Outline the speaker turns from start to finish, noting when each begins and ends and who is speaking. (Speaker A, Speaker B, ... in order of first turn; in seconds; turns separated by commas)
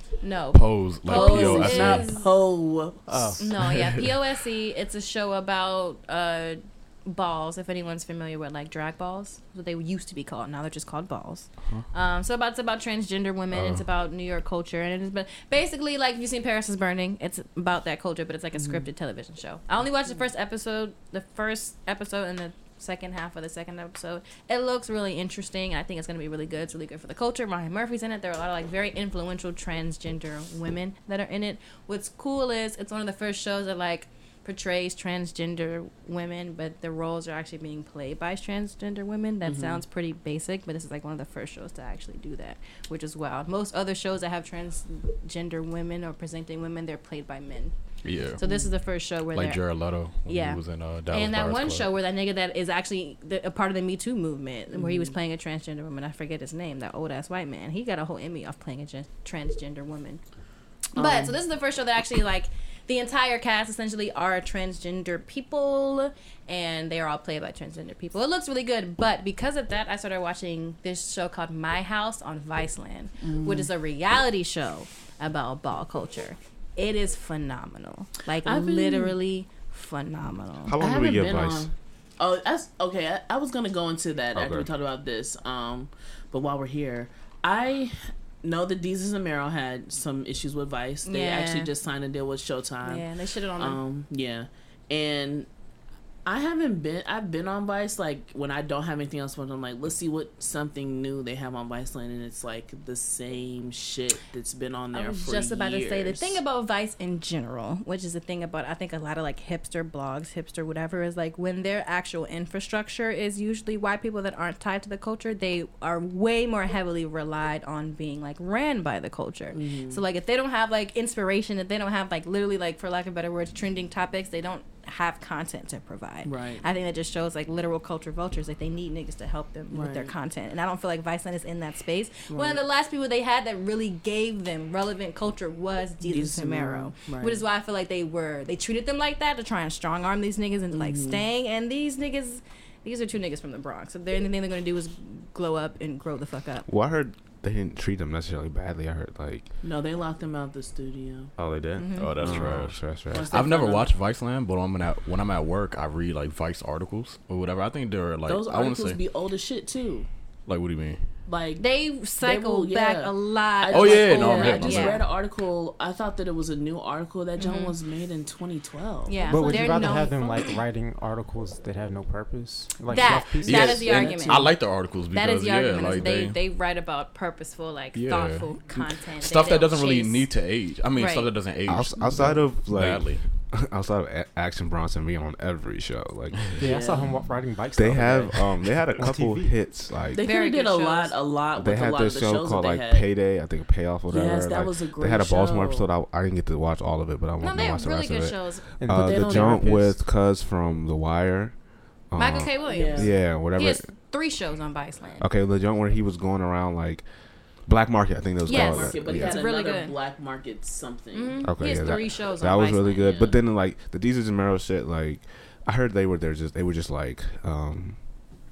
Speaker A: 0.2-2.3, Speaker B: 0.5-2.1, Speaker C: 1.0-3.4, Speaker D: 3.1-3.4, Speaker A: 3.4-60.3, Speaker B: 3.6-4.1, Speaker B: 11.6-11.9, Speaker B: 13.5-13.8, Speaker C: 18.5-18.9, Speaker C: 39.4-39.8, Speaker B: 48.0-48.4, Speaker C: 48.4-48.8, Speaker B: 49.3-51.9, Speaker C: 54.7-55.1, Speaker A: 60.9-80.8, Speaker C: 60.9-61.4, Speaker C: 73.2-73.7, Speaker C: 78.4-79.2, Speaker E: 80.6-81.7, Speaker C: 80.8-95.5, Speaker E: 84.3-84.7, Speaker A: 91.0-91.7, Speaker A: 92.8-93.8, Speaker C: 96.2-106.4, Speaker A: 104.9-146.7, Speaker C: 119.5-120.0, Speaker C: 126.2-126.6, Speaker C: 129.7-130.1, Speaker C: 132.3-132.6, Speaker C: 136.0-137.4, Speaker C: 140.7-141.2, Speaker E: 146.7-149.5, Speaker C: 149.6-151.3, Speaker E: 151.4-153.3, Speaker A: 151.8-152.6, Speaker B: 151.9-159.0, Speaker C: 153.1-153.9, Speaker C: 158.2-160.1, Speaker B: 160.4-161.2, Speaker C: 161.2-169.9, Speaker A: 161.6-165.0, Speaker B: 163.7-165.0, Speaker A: 167.4-167.8, Speaker A: 169.1-170.6, Speaker D: 169.3-173.9, Speaker A: 172.9-180.3, Speaker C: 173.4-174.5, Speaker B: 173.4-176.4, Speaker B: 177.9-183.4, Speaker A: 180.9-181.5, Speaker E: 181.7-186.5, Speaker D: 186.6-189.6, Speaker C: 186.6-187.2, Speaker E: 187.7-190.2, Speaker C: 190.1-193.1, Speaker A: 190.2-191.2, Speaker E: 191.6-203.9, Speaker C: 194.1-195.9, Speaker A: 197.4-198.8, Speaker D: 198.8-199.4, Speaker C: 198.9-200.0, Speaker A: 202.2-205.3, Speaker C: 202.6-203.1, Speaker E: 205.2-207.0, Speaker E: 207.6-209.4, Speaker A: 208.4-209.9, Speaker C: 208.5-212.1, Speaker A: 211.1-213.3, Speaker E: 211.4-218.0